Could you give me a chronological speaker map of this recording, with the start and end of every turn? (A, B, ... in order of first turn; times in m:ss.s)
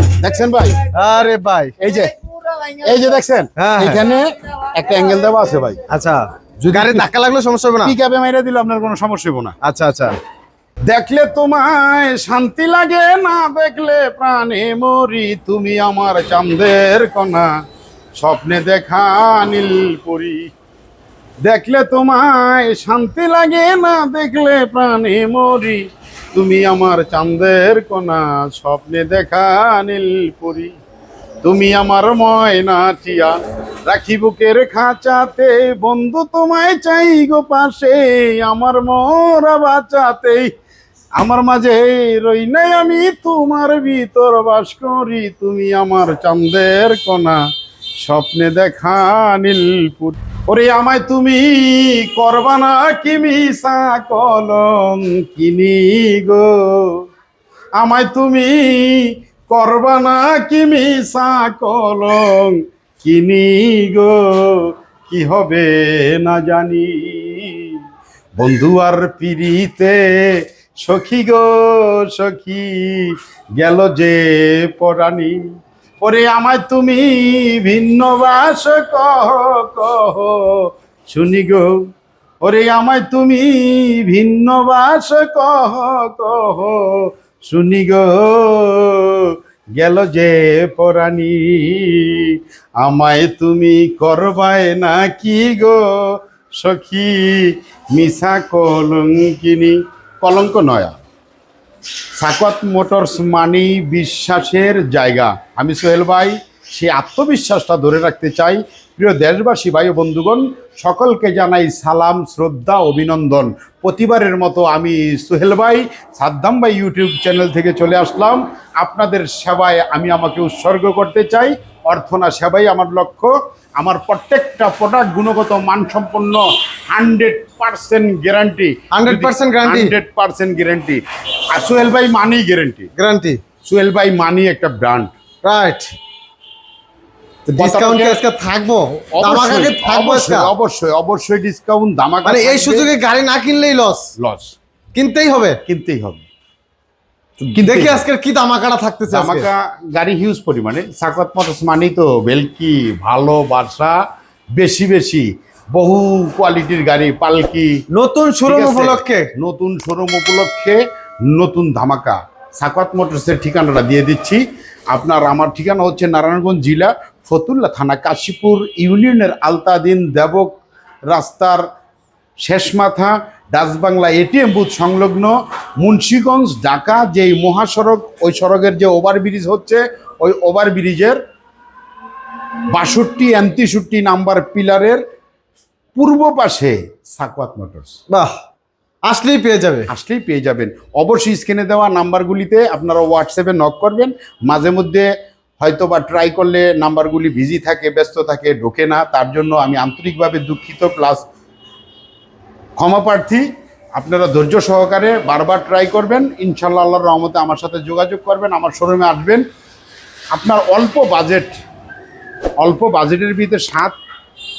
0:00.2-0:00.8 A
0:00.9-0:01.7 B
0:01.8-0:05.8 A
0:03.6-0:04.0 B
0:05.9-0:07.9 B
0:06.6-0:07.1 A
0:07.8-0:09.5 A
0:09.6-0:10.2 B
0:10.9-0:17.5 A
0:18.2-0:20.5 A
0:21.4-0:30.7 A
0:31.4-0:33.4 A
0:33.9-0:40.5 A
0:41.2-0:47.4 A
0:48.0-0:57.0 A
0:57.8-1:07.8 A
1:08.4-1:15.4 A
1:16.0-1:21.7 A
1:22.4-1:40.9 A
1:42.2-2:11.0 A
2:08.9-2:09.9 B
2:11.5-2:12.9 A
2:13.0-2:13.4 B
2:13.7-2:15.1 A
2:15.4-2:15.9 B
2:17.5-2:20.5 B
2:17.6-2:18.2 A
2:19.2-2:22.9 A
2:22.2-2:24.1 B
2:24.2-2:24.5 A
2:24.9-2:25.6 B
2:25.6-2:26.2 A
2:27.4-2:29.5 B
2:27.5-2:28.0 A
2:29.1-2:34.0 A
2:34.6-2:37.7 A
2:37.9-2:39.3 B
2:38.5-2:40.8 A
2:41.3-2:50.6 A
2:51.1-2:51.6 A
2:52.4-3:01.2 A
3:02.7-3:05.0 A
3:06.0-3:08.0 A
3:08.1-3:08.4 B
3:09.0-3:09.9 B
3:09.9-3:15.1 A
3:15.6-3:21.2 A
3:22.8-3:29.4 A
3:30.3-3:31.5 A
3:32.6-3:34.0 A